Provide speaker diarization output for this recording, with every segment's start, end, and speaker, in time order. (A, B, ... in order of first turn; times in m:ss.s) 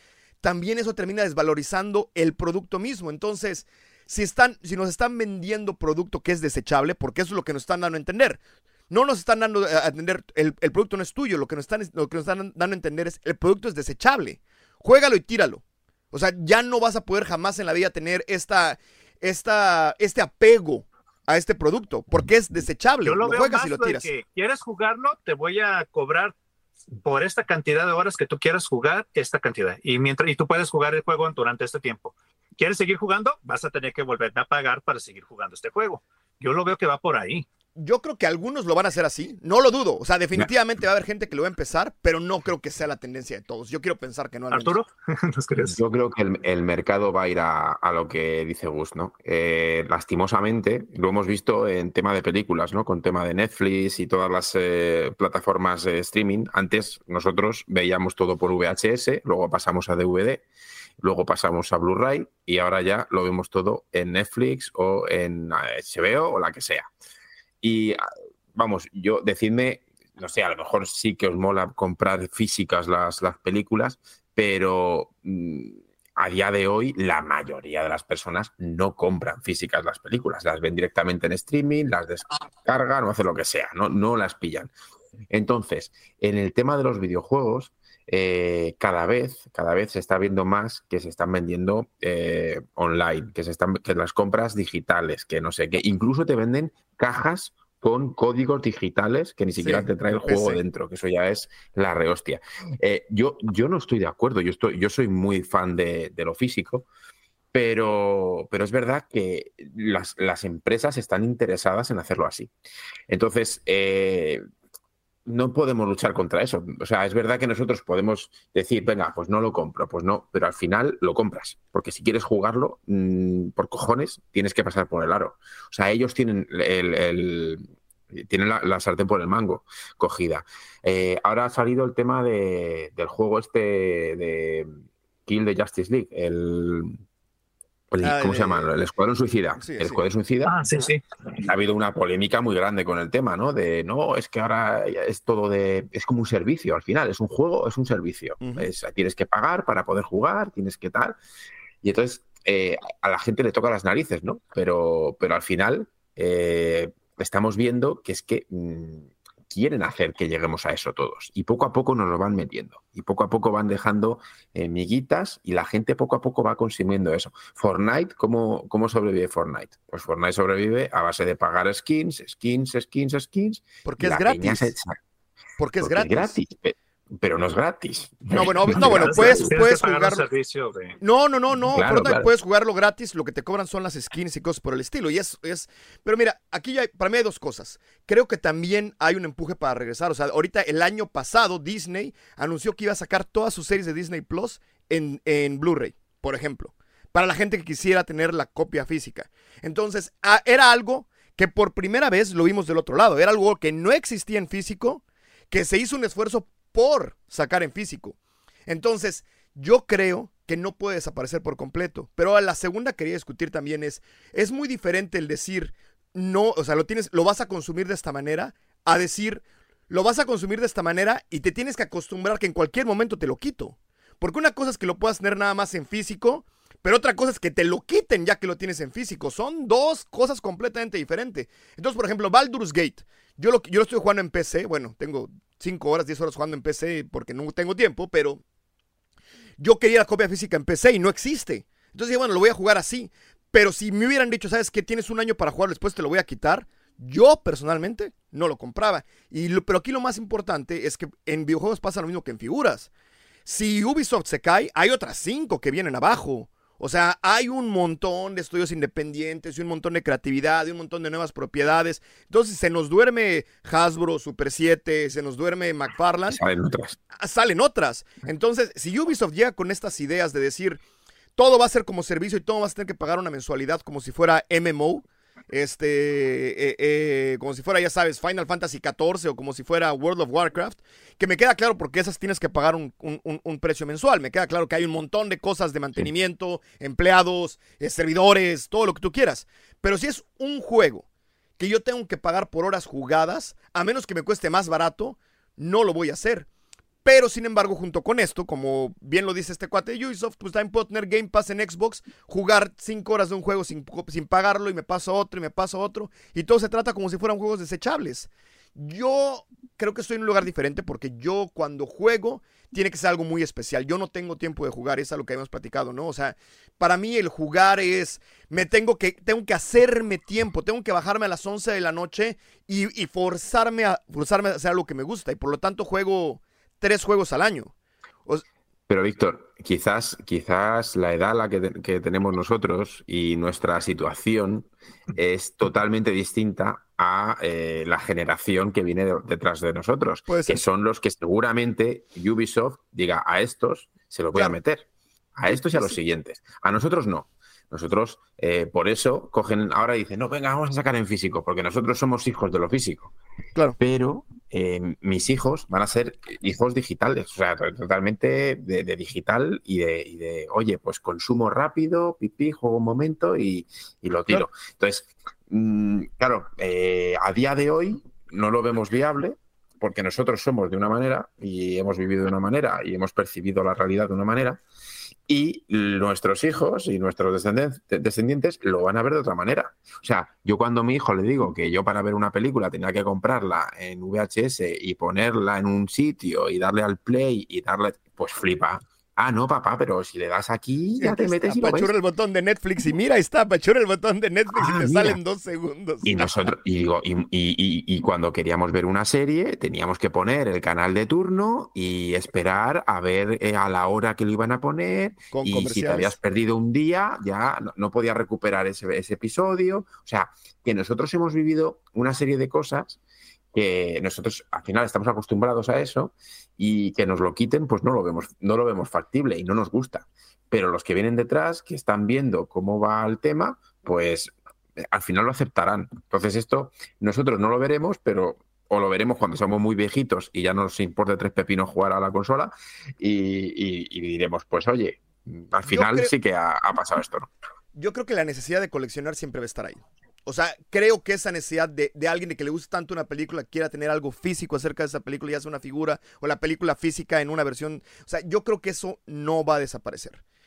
0:00.4-0:24.1 A
0:23.0-0:26.4 B
0:27.0-0:37.4 B
0:37.8-0:44.7 A
0:44.5-0:45.8 B
0:45.6-1:00.4 C
1:01.0-1:06.9 C
1:07.6-1:08.0 C
1:08.5-1:24.7 C
1:25.3-1:46.8 C
1:39.6-1:40.6 A
1:47.5-1:52.5 C
1:53.1-1:54.4 C
1:55.2-2:17.0 C
2:17.9-2:20.6 C
2:18.0-2:18.7 A
2:19.6-2:20.0 A
2:20.4-2:21.0 B
2:21.4-2:31.2 C
2:28.4-2:28.7 A
2:31.8-2:55.0 C
2:53.8-2:54.7 A
2:55.6-2:56.4 A
2:55.8-2:59.5 C
2:58.3-3:00.2 A
2:58.4-3:01.0 B
3:01.0-3:58.4 A
3:01.7-3:02.3 C
3:59.6-4:12.9 A
4:13.4-4:26.4 A
4:26.3-4:27.0 C
4:27.2-4:30.8 A
4:31.4-4:51.0 A
4:51.6-4:56.5 A
4:57.0-5:27.7 A
5:28.9-5:53.1 C
5:40.3-5:40.6 A
5:45.4-5:46.0 A
5:53.8-6:14.6 C
6:15.3-6:31.9 C
6:31.0-6:36.3 A
6:34.5-6:35.2 C
6:36.0-6:53.0 C
6:45.3-6:46.2 A
6:53.5-7:17.3 C
7:15.6-7:16.1 A
7:17.7-7:30.2 A